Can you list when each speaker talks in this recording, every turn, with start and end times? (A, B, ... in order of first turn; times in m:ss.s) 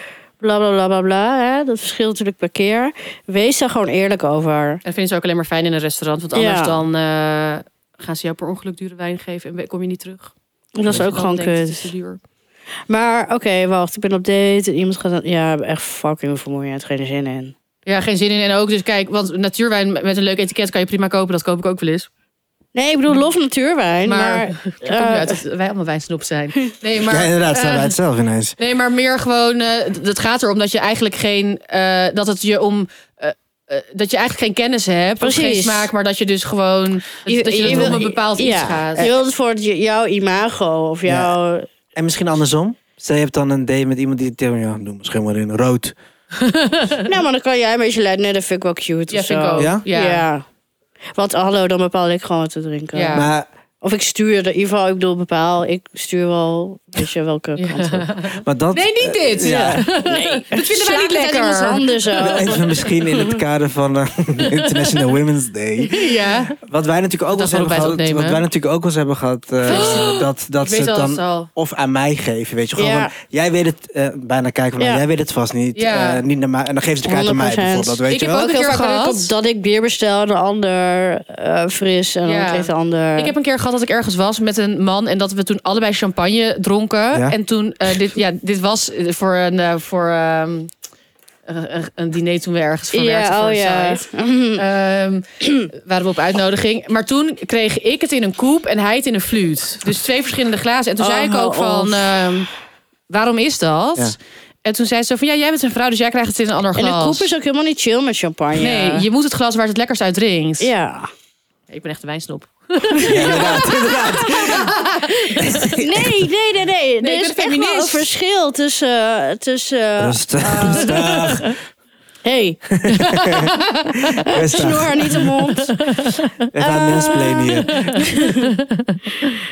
0:00.4-0:04.8 A
0:04.8-0:10.3 B
0:06.3-0:06.8 A
0:10.7-0:11.9 A
0:10.9-0:12.2 B
0:12.9-0:17.6 A
0:17.9-0:22.1 B
0:22.7-0:25.4 A
0:24.0-0:27.9 B
0:27.0-0:28.6 C
0:28.6-0:39.1 B
0:35.2-0:35.9 A
0:37.3-0:41.7 A
0:37.6-0:38.0 C
0:41.0-0:41.3 C
0:42.0-0:45.9 C
0:46.3-0:47.1 B
0:47.0-0:50.4 A
0:49.1-0:50.3 B
0:49.6-0:49.8 C
0:51.1-0:53.3 A
0:52.9-0:53.3 B
0:53.1-0:53.4 C
0:53.8-0:58.1 A
0:57.6-1:02.5 B
0:58.4-0:59.9 C
0:59.4-1:03.4 A
1:02.2-1:18.5 C
1:04.4-1:04.8 B
1:05.9-1:06.6 B
1:07.3-1:08.4 B
1:09.6-1:11.5 B
1:12.8-1:13.1 A
1:15.8-1:16.2 B
1:17.0-1:23.3 A
1:18.1-1:19.3 B
1:22.2-1:30.7 B
1:31.4-1:42.5 B
1:32.9-1:34.6 A
1:41.0-1:42.3 A
1:43.1-1:47.3 B
1:46.7-1:49.1 A
1:48.6-1:50.7 B
1:50.6-1:51.1 A
1:51.7-1:55.7 B
1:52.9-1:55.0 A
1:53.0-1:56.2 C
1:55.7-2:01.3 A
1:57.0-1:58.1 B
2:00.0-2:01.6 C
2:00.5-2:01.5 B
2:02.2-2:02.6 A
2:02.7-2:05.3 C
2:02.9-2:04.2 B
2:04.3-2:05.8 A
2:05.1-2:06.3 B
2:06.5-2:08.1 C
2:06.6-2:08.6 A
2:07.8-2:09.4 B